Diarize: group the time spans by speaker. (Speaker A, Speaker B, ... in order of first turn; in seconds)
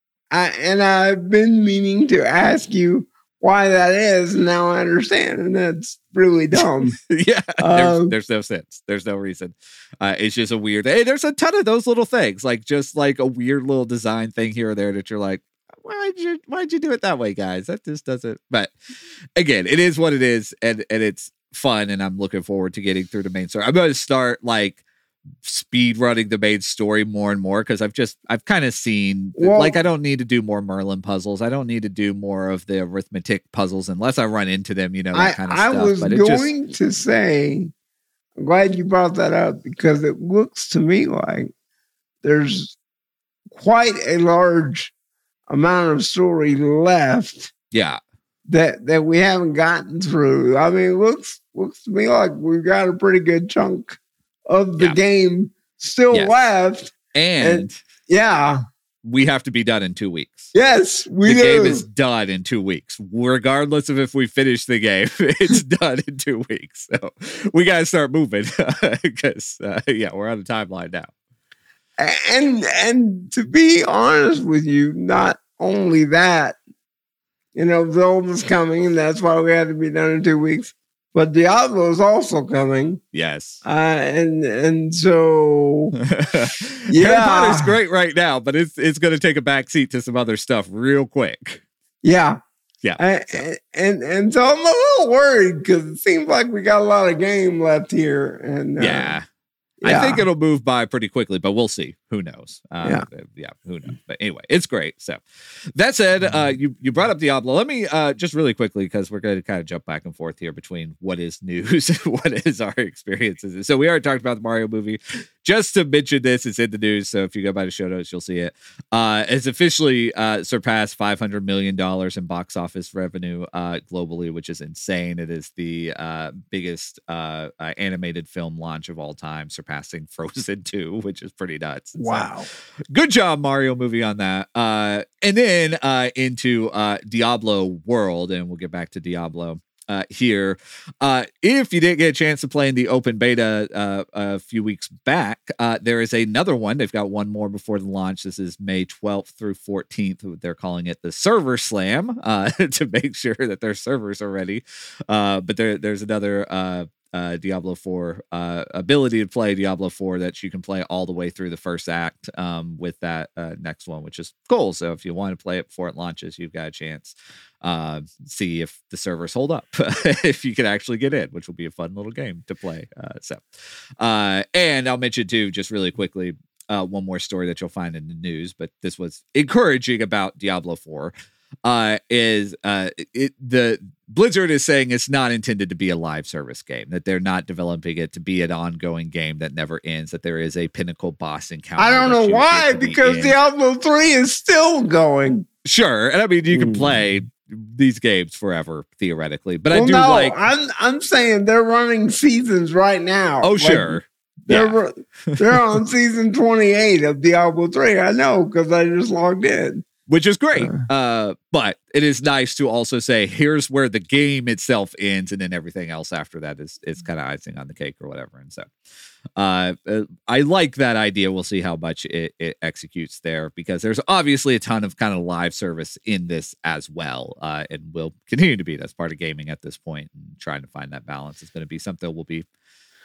Speaker A: 0.3-6.9, 7.6-8.1, 29.4-29.8, 35.1-37.7, 38.4-41.5, 42.2-42.8, 43.5-44.9, 45.5-47.5, 48.5-54.0, 54.5-58.6, 60.5-61.8, 72.0-76.6, 77.5-83.0, 83.6-86.0, 86.9-87.7, 92.0-92.4, 93.0-99.2, 99.8-100.2, 132.0-132.5, 191.8-195.4, 196.5-196.9, 199.7-209.8
Speaker B: 6.8-18.7, 19.4-24.8, 25.4-36.5, 47.7-48.0, 57.1-57.8, 59.0-60.5, 61.2-71.1, 83.1-83.6, 86.0-91.6, 92.8-93.4, 98.8-99.2, 99.8-105.2, 105.7-132.3, 132.9-173.5, 174.0-193.3, 195.6-200.4, 203.4-204.8, 205.3-205.7, 210.1-218.7, 219.4-232.4